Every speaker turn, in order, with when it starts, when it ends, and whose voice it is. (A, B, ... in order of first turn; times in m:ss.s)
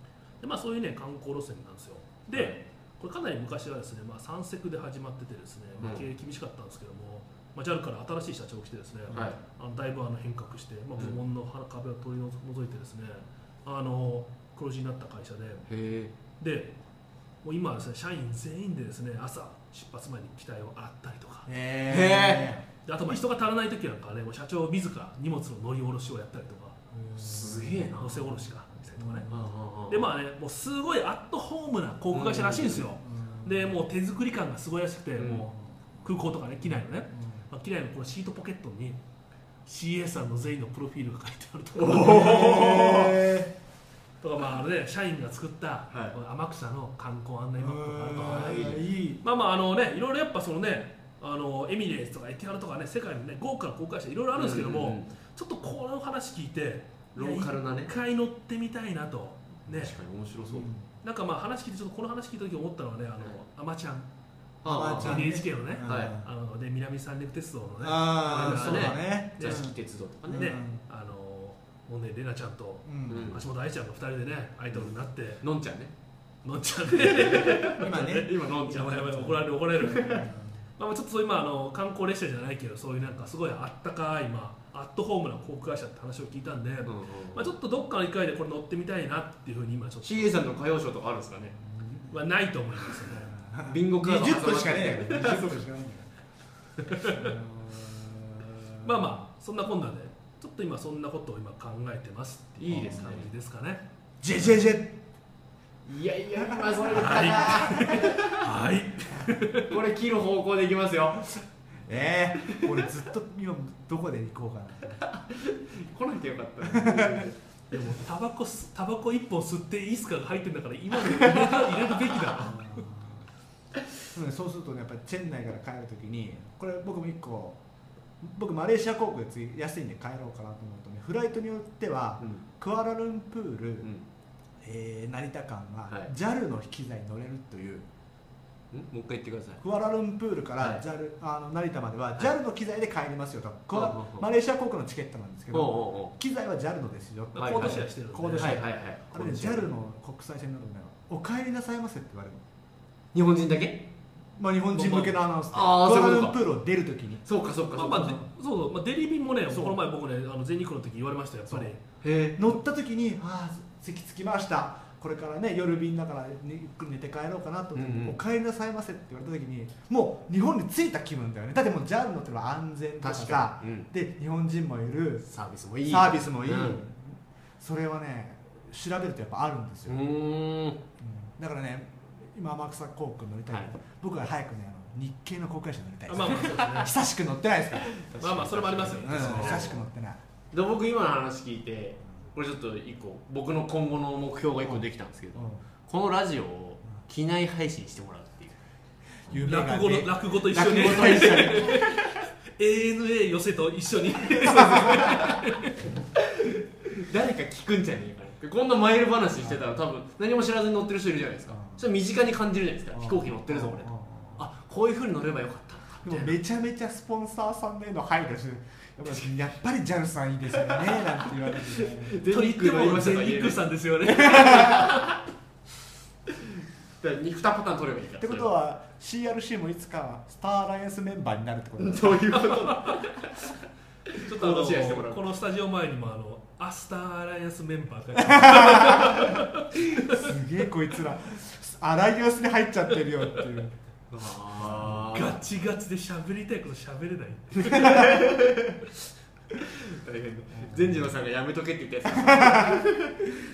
0:00.4-0:15.6 A
0:02.3-0:02.6 B
0:05.8-0:06.0 B
0:09.1-0:09.4 B
0:15.7-0:16.1 B
0:16.4-0:16.8 A
0:17.4-0:21.5 A
0:21.5-0:23.1 C
0:21.9-0:22.5 B
0:22.8-0:26.8 A
0:26.9-0:29.5 C
0:27.2-0:28.3 B
0:28.0-0:29.3 A
0:29.3-0:30.1 B
0:29.9-0:35.5 A
0:32.1-0:32.9 B
0:33.0-0:33.8 C
0:35.2-0:35.5 B
0:35.3-0:37.5 C
0:36.0-0:39.0 A
0:39.6-0:43.2 A
0:41.8-0:43.1 B
0:41.8-0:43.5 C
0:44.2-1:00.0 A
0:45.9-0:46.2 B
0:47.6-0:49.2 C
0:48.3-0:48.8 B
0:54.3-0:55.1 B
0:57.1-0:57.9 B
0:59.7-1:00.7 B
1:00.5-1:00.9 C
1:01.0-1:04.1 A
1:04.6-1:05.3 B
1:04.6-1:06.3 C
1:04.9-1:09.7 A
1:05.8-1:06.1 B
1:07.8-1:09.8 C
1:08.2-1:10.6 B
1:10.3-1:15.4 A
1:10.3-1:10.8 C
1:12.8-1:13.4 C
1:13.1-1:13.4 B
1:15.4-1:15.9 B
1:16.4-1:30.4 A
1:16.9-1:19.2 B
1:17.7-1:18.3 C
1:19.0-1:19.4 C
1:19.8-1:20.2 B
1:20.0-1:20.6 C
1:26.8-1:27.5 B
1:30.0-1:31.6 B
1:31.6-1:32.2 C
1:32.1-1:33.3 A
1:33.1-1:36.1 C
1:33.6-1:35.6 B
1:36.8-1:37.3 A
1:37.0-1:39.1 C
1:38.8-1:43.8 A
1:42.6-1:43.3 B
1:42.7-1:43.2 C
1:44.2-1:45.0 C
1:45.8-1:48.4 B
1:46.4-1:48.1 C
1:46.9-1:49.8 A
1:49.6-1:51.3 B
1:51.8-1:55.0 C
1:52.4-1:52.8 B
1:55.0-1:57.4 B
1:56.6-1:57.3 C
1:57.7-2:02.8 A
2:01.1-2:01.9 B
2:02.4-2:03.2 C
2:04.1-2:07.6 C
2:08.2-2:13.9 C
2:14.6-2:17.9 C
2:18.7-2:19.6 B
2:19.6-2:32.4 C
2:20.6-2:20.8 B
2:23.7-2:24.2 B
2:25.5-2:26.1 B
2:27.3-2:28.6 A
2:27.3-2:29.7 B
2:33.1-2:33.9 B
2:34.4-2:37.2 C
2:34.8-2:35.1 A
2:35.5-2:36.4 B
2:37.2-2:38.2 B
2:37.8-2:41.8 A
2:39.5-2:39.8 C
2:42.0-2:42.4 B
2:42.4-2:55.3 C
2:47.7-2:48.2 B
2:53.0-2:53.9 B
2:55.3-2:56.8 B
2:55.8-3:00.0 C
2:59.9-3:00.8 B
3:01.0-3:08.0 C
3:06.1-3:06.9 A
3:06.4-3:06.8 B
3:07.9-3:09.8 B
3:08.2-3:09.7 A
3:08.9-3:10.2 C
3:10.5-3:18.6 B
3:15.3-3:15.6 C
3:19.2-3:21.8 C
3:19.4-3:25.8 A
3:20.5-3:21.8 B
3:24.4-3:25.2 C
3:24.9-3:25.4 B
3:26.2-3:36.4 B
3:31.5-3:31.8 C
3:32.9-3:34.4 C
3:36.0-3:42.2 C
3:40.6-3:45.2 B
3:42.2-3:45.1 A
3:47.0-3:48.6 B
3:48.2-3:52.6 C
3:51.8-3:53.4 B
3:52.7-3:52.9 A
3:54.1-3:55.2 B
3:54.2-4:00.3 A
3:58.2-4:03.7 C
4:04.1-4:05.4 B
4:04.6-4:05.1 C
4:05.1-4:08.1 A
4:07.6-4:08.8 B
4:09.6-4:13.3 B
4:10.5-4:11.2 C
4:12.1-4:12.8 C